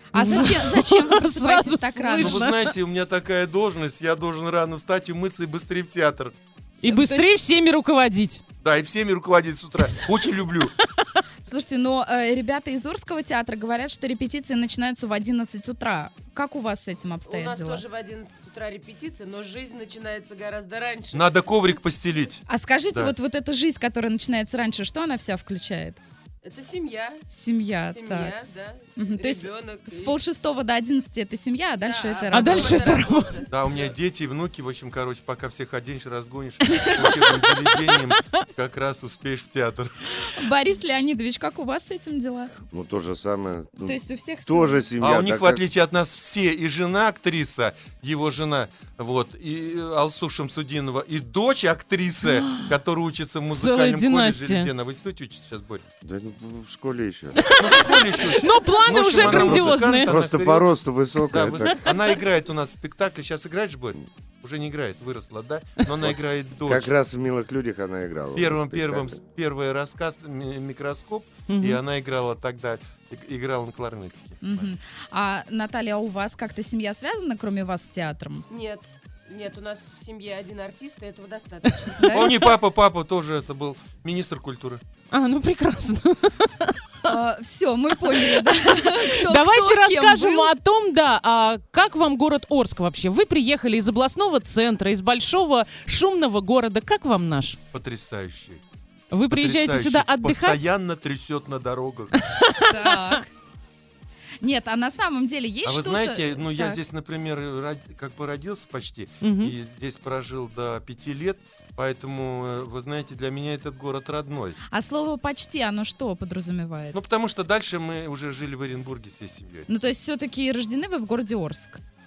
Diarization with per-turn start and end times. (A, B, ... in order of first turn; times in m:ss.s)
0:00.1-0:02.5 A
0:00.1-0:02.7 B
0:02.2-0:06.3 C
0:06.8-0:07.3 A
0:06.8-0:08.4 B
0:08.6-0:10.7 C
0:11.4-0:17.8 A
0:17.2-0:21.3 D
0:21.1-0:23.1 C
0:22.5-0:26.0 A
0:26.4-0:27.3 D
0:27.3-0:28.3 A
0:27.8-0:30.2 D
0:29.0-0:33.1 A
0:31.8-0:33.9 D
0:32.3-0:33.4 B
0:33.5-0:39.9 C
0:40.4-0:42.5 A
0:42.7-0:45.6 E
0:43.8-0:44.8 A
0:45.0-0:55.8 C
0:53.6-0:54.7 B
0:56.0-0:57.4 E
0:57.4-1:00.1 B
0:57.5-1:00.7 C
0:59.2-1:01.8 E
1:01.3-1:06.9 C
1:06.6-1:09.2 E
1:08.3-1:14.7 C
1:11.5-1:11.8 B
1:14.4-1:18.4 A
1:18.5-1:22.1 D
1:22.0-1:22.4 A
1:22.1-1:24.8 C
1:25.1-1:26.8 B
1:27.0-1:30.5 A
1:28.1-1:37.6 B
1:37.7-1:38.6 C
1:39.1-1:40.7 B
1:39.3-1:42.2 C
1:42.5-1:43.2 B
1:42.7-1:43.3 A
1:44.4-1:46.8 A
1:45.6-1:54.6 C
1:49.2-1:49.5 B
1:54.7-1:57.0 A
1:56.9-1:59.7 C
1:59.7-2:01.8 A